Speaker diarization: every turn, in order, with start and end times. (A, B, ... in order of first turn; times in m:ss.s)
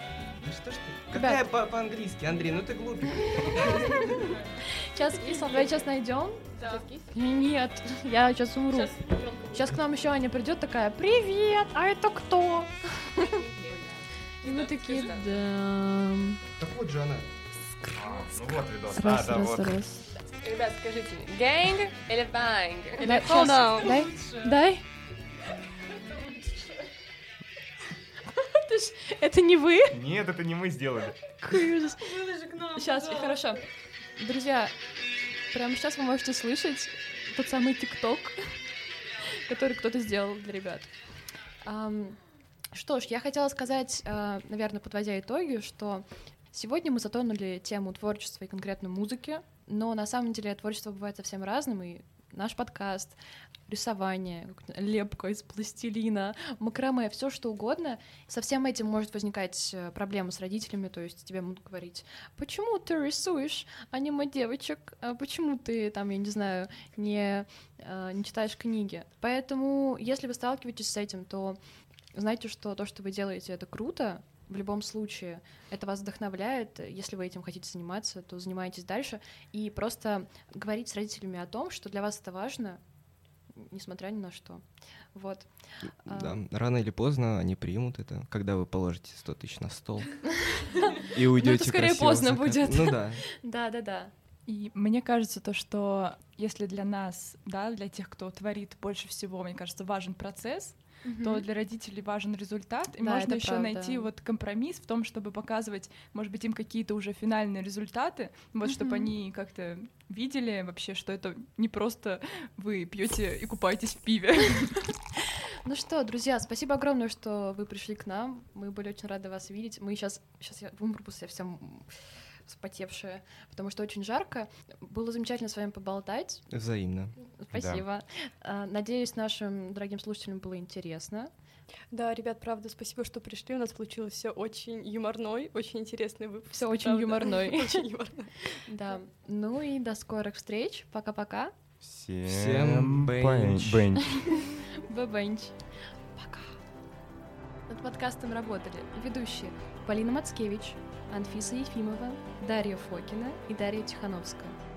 0:00.3-0:04.2 A
0:01.1-0:01.4 B
0:03.2-0:13.4 B
0:06.6-0:07.0 C
0:09.0-0:09.7 C
0:13.2-0:15.2 C
0:14.4-0:16.4 B
0:16.6-0:17.3 A
0:17.9-0:19.8 D
0:18.8-0:20.1 B
0:20.2-0:24.1 C
0:23.0-0:24.3 E
0:23.0-0:24.8 B
0:26.1-0:26.8 E
0:28.3-0:30.0 B
0:29.9-0:31.1 D
0:31.4-0:33.6 B
0:32.1-0:33.4 E
0:34.2-0:34.7 B
0:35.5-0:38.4 B
0:39.2-0:40.9 B
0:41.6-0:42.2 B
0:42.7-0:53.2 B
0:53.7-1:11.6 B
1:12.1-1:22.8 B
1:23.6-1:24.6 B
1:25.1-1:25.5 B
1:26.0-1:26.4 B
1:26.1-1:30.2 A
1:30.4-1:34.1 B
1:31.0-1:33.2 A
1:34.5-1:54.9 F
1:41.0-1:41.5 B
1:43.0-1:44.1 B
1:48.6-1:49.1 B
1:55.2-2:01.9 B
2:02.4-2:06.4 B
2:06.5-2:07.1 A
2:07.4-2:11.3 B
2:07.5-2:07.8 D
2:11.9-2:18.6 E
2:16.5-2:17.8 B
2:18.6-2:21.5 B
2:21.8-2:24.4 D
2:22.2-2:24.0 A
2:24.1-2:25.6 B
2:26.2-2:26.6 B
2:27.7-2:34.5 B